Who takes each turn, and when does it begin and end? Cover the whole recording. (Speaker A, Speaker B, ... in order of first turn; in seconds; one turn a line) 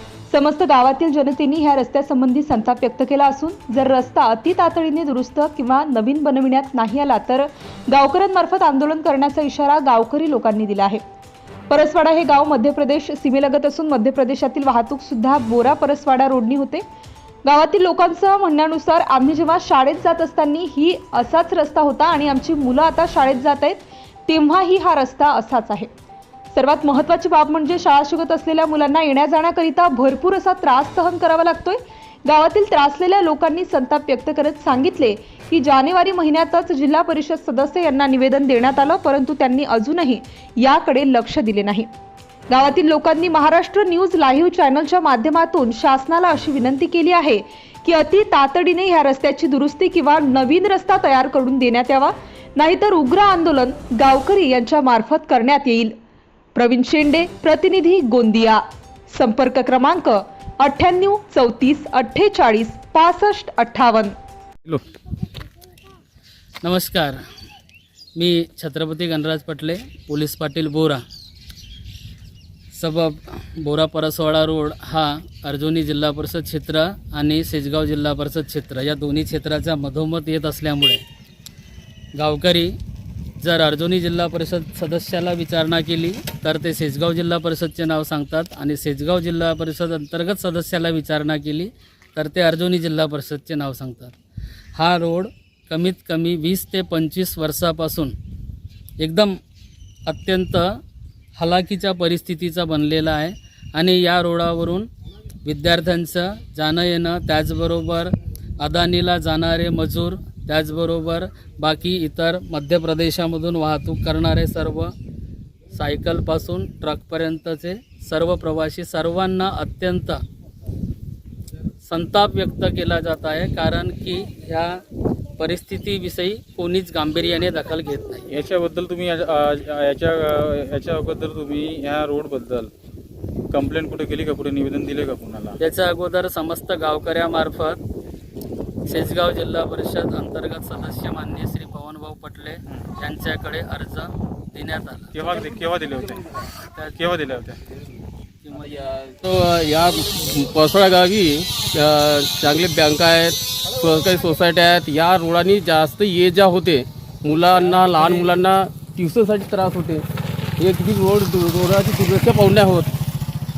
Speaker A: 0.3-11.0
Speaker A: 11.7-16.8
Speaker A: 17.4-25.9
Speaker A: 26.5-41.9
Speaker A: 42.5-55.9
Speaker A: 56.5-64.1
Speaker B: 66.6-67.2
Speaker B: 68.2-71.0
Speaker B: 72.7-81.0
Speaker B: 82.2-82.7
Speaker B: 83.4-94.1
Speaker B: 94.8-98.1
Speaker B: 99.0-99.3
Speaker B: 100.1-100.8
Speaker B: 101.4-104.9
Speaker B: 105.4-114.9
Speaker B: 115.7-120.2
Speaker B: 121.8-124.8
Speaker B: 125.4-128.2
Speaker C: 128.3-132.7
Speaker C: 133.5-135.6
Speaker B: 135.6-137.8
Speaker B: 138.8-145.1
Speaker C: 145.1-146.3
Speaker C: 146.9-147.6
Speaker B: 148.4-148.9
Speaker D: 149.2-160.0
Speaker D: 160.6-162.9